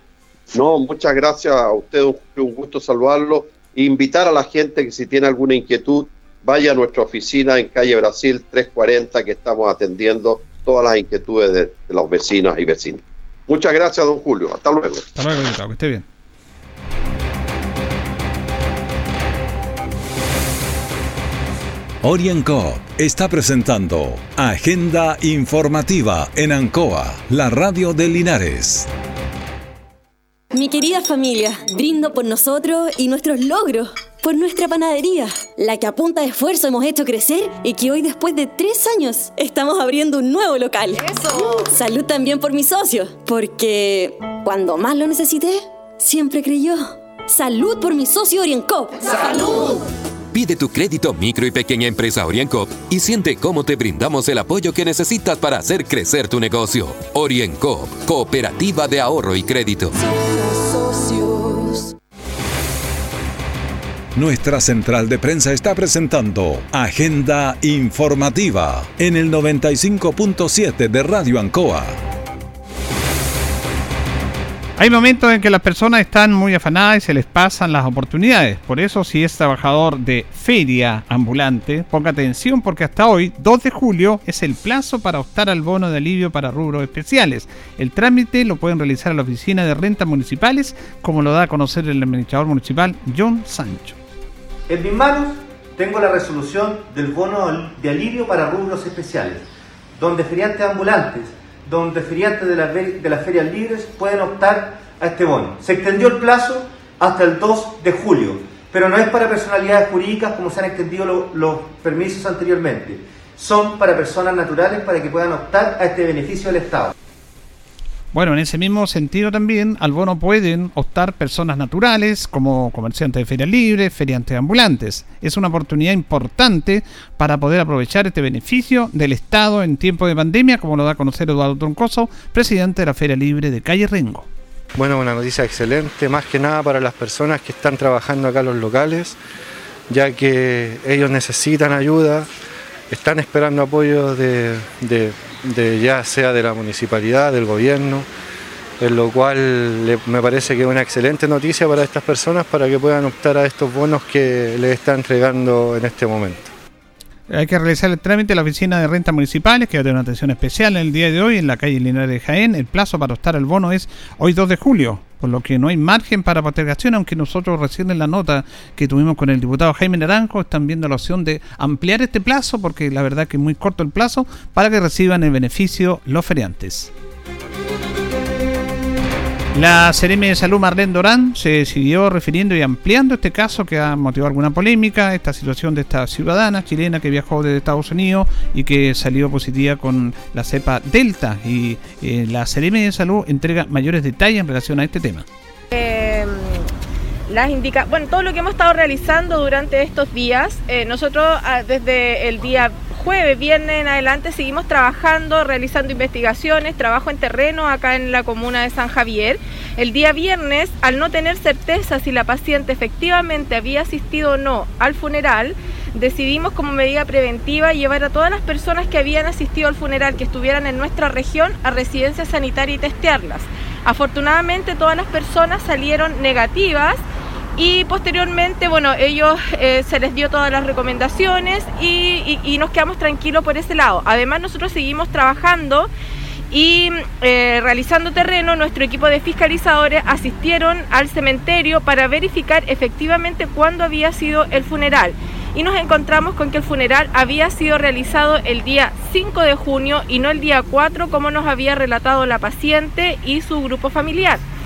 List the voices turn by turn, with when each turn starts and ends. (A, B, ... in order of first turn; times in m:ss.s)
0:00.5-0:15.0 A
0:15.1-0:16.0 B
0:22.0-0:28.9 C
0:30.5-0:49.8 D
0:50.3-1:00.0 E
1:04.1-1:12.0 C
1:14.8-1:34.0 B
1:34.7-1:56.9 F
1:58.1-2:14.3 B
2:14.8-2:19.2 G
2:19.9-2:22.3 G
2:22.9-2:28.1 G
2:28.8-2:36.5 G
2:37.3-2:56.9 B
2:59.5-3:15.2 B
3:15.7-3:16.7 H
3:17.3-3:47.0 H
3:47.6-3:55.9 H
3:56.5-4:14.4 H